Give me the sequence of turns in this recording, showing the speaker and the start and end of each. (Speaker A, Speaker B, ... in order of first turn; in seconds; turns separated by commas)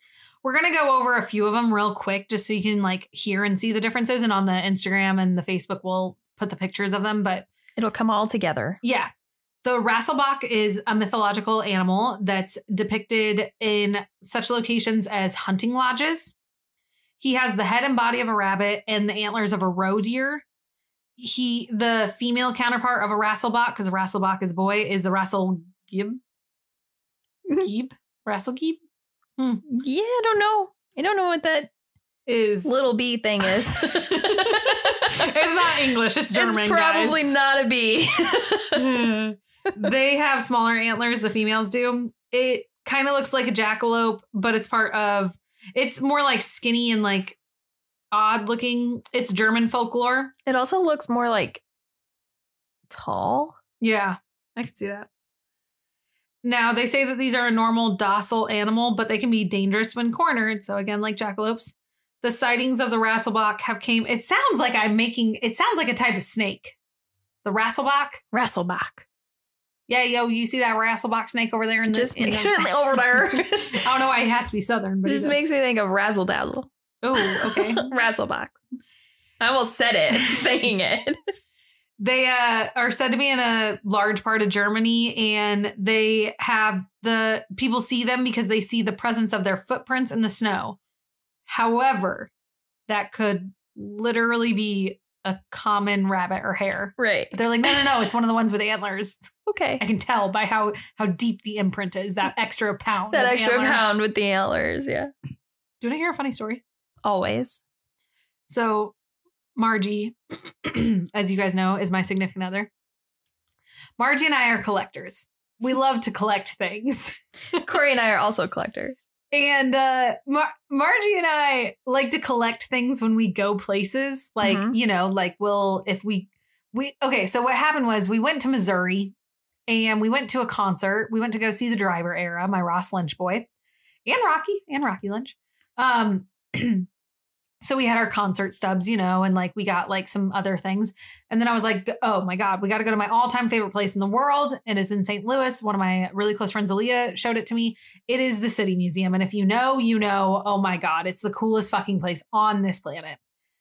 Speaker A: 0.4-7.5, Speaker B: 7.8-8.8, Speaker A: 8.8-9.1, Speaker A: 9.6-16.4, Speaker A: 17.2-20.4, Speaker A: 21.2-26.2, Speaker A: 27.6-28.8, Speaker A: 29.4-29.6, Speaker B: 29.7-31.7, Speaker A: 32.3-32.9, Speaker B: 32.6-35.3, Speaker A: 33.5-37.4, Speaker B: 36.3-39.0, Speaker A: 38.8-47.4, Speaker A: 48.1-50.3, Speaker B: 50.5-51.6, Speaker B: 52.9-53.6, Speaker A: 53.8-55.1, Speaker A: 56.4-66.8, Speaker A: 67.4-68.2, Speaker B: 68.3-69.0, Speaker A: 69.9-75.4, Speaker B: 71.9-73.8, Speaker B: 75.0-78.6, Speaker A: 77.0-77.9, Speaker B: 79.4-81.2, Speaker A: 82.0-90.8, Speaker A: 91.5-92.3, Speaker A: 92.9-103.8, Speaker B: 97.0-97.8, Speaker B: 99.5-99.8, Speaker B: 103.1-105.1, Speaker A: 105.8-106.6, Speaker B: 107.0-107.6, Speaker A: 108.5-109.0, Speaker A: 109.6-112.7, Speaker A: 114.0-117.6, Speaker B: 117.6-119.0, Speaker A: 119.3-129.1, Speaker B: 124.4-124.8, Speaker A: 129.7-133.5, Speaker A: 134.1-136.9, Speaker A: 137.6-153.2